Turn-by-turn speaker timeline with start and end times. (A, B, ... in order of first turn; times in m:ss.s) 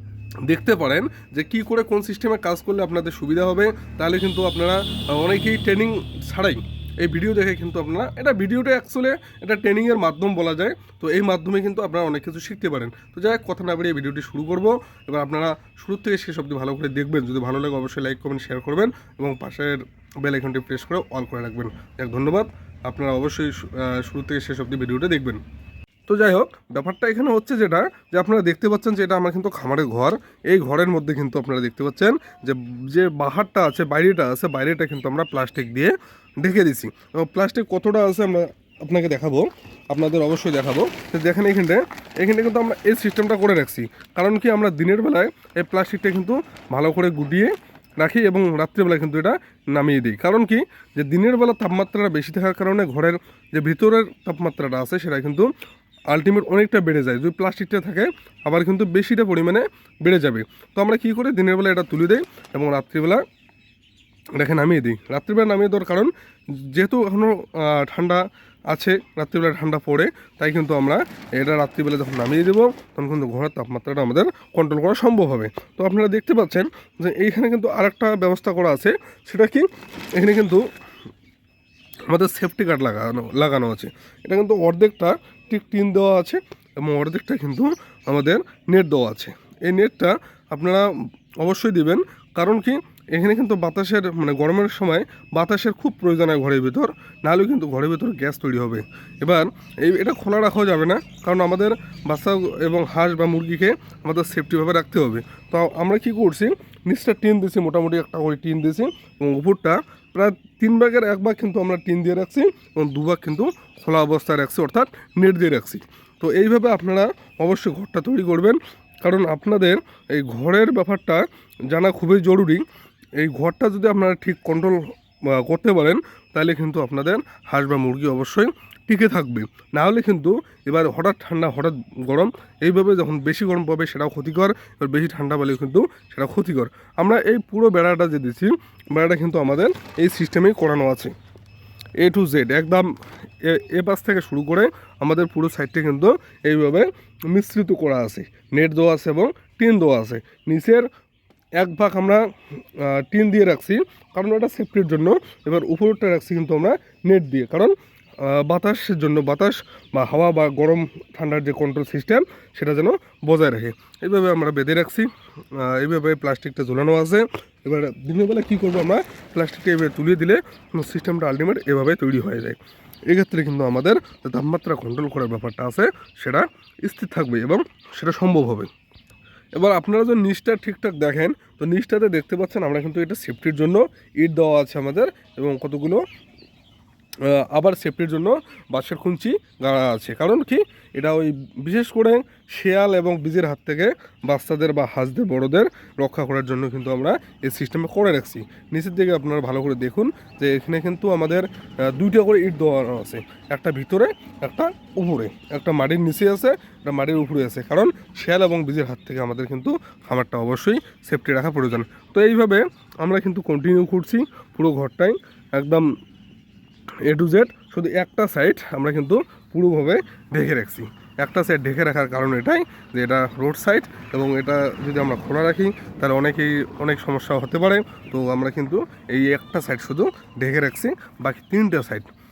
0:00.4-0:25.4 A
0:26.1-0:55.5 A
0:56.1-1:03.2 A
1:04.4-1:20.6 A
1:22.1-1:30.8 A
1:31.4-2:02.6 A
2:03.2-2:21.1 A
2:22.0-2:22.9 A
2:23.4-2:30.9 A
2:31.6-2:32.2 A
2:32.7-2:58.7 A
2:59.6-3:06.0 A
3:07.2-3:35.9 A
3:37.0-3:52.1 A